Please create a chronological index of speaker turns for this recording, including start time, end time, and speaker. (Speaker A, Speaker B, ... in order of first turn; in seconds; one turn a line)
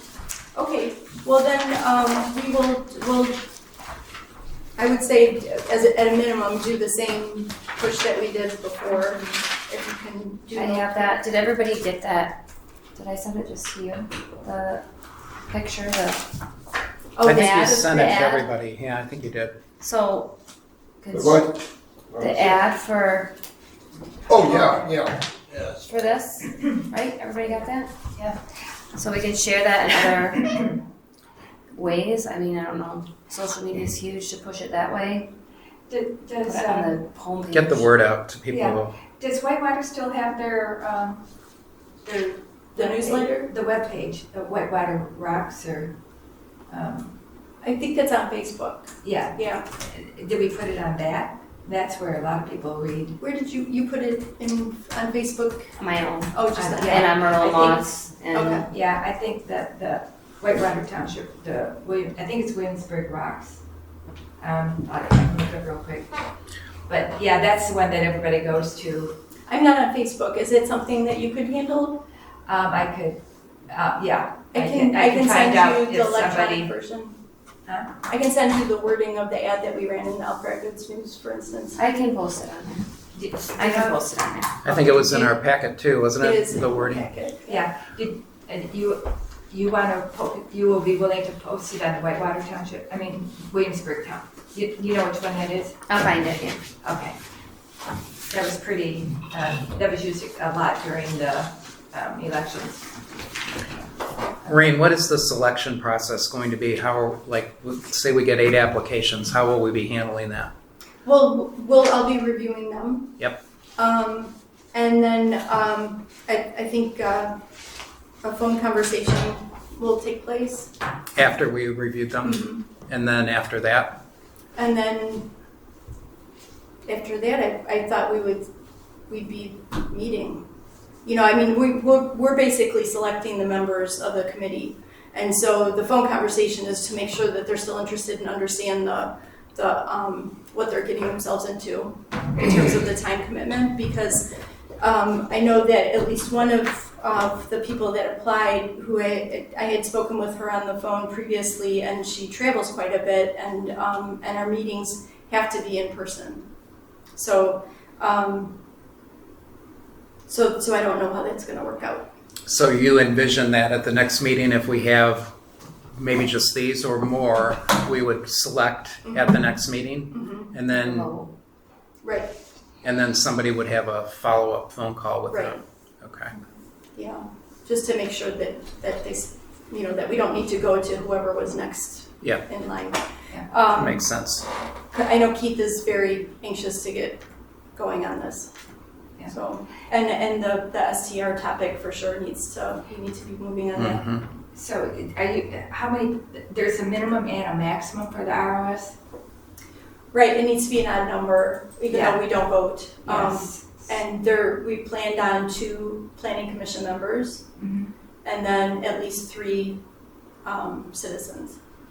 Speaker A: 0.5-3.4
Speaker A: 4.8-11.2
Speaker B: 10.5-12.4
Speaker B: 12.9-14.8
Speaker B: 15.5-16.2
Speaker A: 17.1-18.2
Speaker C: 17.2-19.5
Speaker B: 17.2-18.5
Speaker B: 19.8-20.3
Speaker B: 21.0-21.5
Speaker D: 21.1-21.5
Speaker D: 22.2-22.6
Speaker B: 22.2-23.3
Speaker D: 24.3-25.8
Speaker E: 24.4-24.9
Speaker B: 25.8-27.9
Speaker E: 27.4-28.4
Speaker B: 28.9-30.6
Speaker B: 31.7-35.3
Speaker E: 35.9-36.9
Speaker B: 36.4-37.9
Speaker C: 37.5-39.0
Speaker E: 38.5-41.2
Speaker E: 42.0-45.9
Speaker A: 42.8-43.5
Speaker E: 46.7-47.1
Speaker A: 47.6-49.7
Speaker E: 49.0-53.2
Speaker A: 53.2-55.7
Speaker B: 55.8-58.6
Speaker A: 56.3-58.7
Speaker E: 56.5-57.1
Speaker E: 58.6-63.6
Speaker E: 64.4-66.1
Speaker E: 66.9-69.2
Speaker A: 69.5-72.0
Speaker E: 72.5-76.7
Speaker A: 74.5-77.2
Speaker A: 78.1-82.1
Speaker B: 81.8-82.9
Speaker E: 83.1-84.0
Speaker B: 83.5-84.7
Speaker C: 84.6-87.1
Speaker A: 84.7-85.3
Speaker A: 86.2-87.6
Speaker E: 87.5-95.8
Speaker B: 95.9-96.6
Speaker E: 96.8-97.2
Speaker E: 98.3-102.9
Speaker C: 104.5-110.5
Speaker A: 111.0-113.2
Speaker A: 113.8-117.3
Speaker A: 118.2-120.7
Speaker C: 121.1-124.0
Speaker A: 122.2-122.6
Speaker A: 124.6-125.3
Speaker A: 126.8-128.5
Speaker A: 129.1-130.5
Speaker A: 131.0-144.3
Speaker A: 144.8-156.4
Speaker A: 157.2-158.6
Speaker A: 160.3-162.1
Speaker C: 162.5-165.3
Speaker C: 165.9-171.1
Speaker A: 169.0-169.4
Speaker A: 170.1-170.5
Speaker B: 170.7-171.3
Speaker A: 172.0-172.3
Speaker C: 172.8-176.3
Speaker A: 175.3-175.6
Speaker A: 176.9-184.1
Speaker C: 183.7-184.4
Speaker A: 184.9-187.2
Speaker A: 187.8-188.5
Speaker A: 189.2-194.0
Speaker C: 193.7-194.2
Speaker E: 194.5-198.9
Speaker A: 200.1-207.4
Speaker E: 201.9-202.3
Speaker E: 203.1-203.8
Speaker E: 207.6-207.9
Speaker A: 208.2-209.8
Speaker A: 210.4-211.6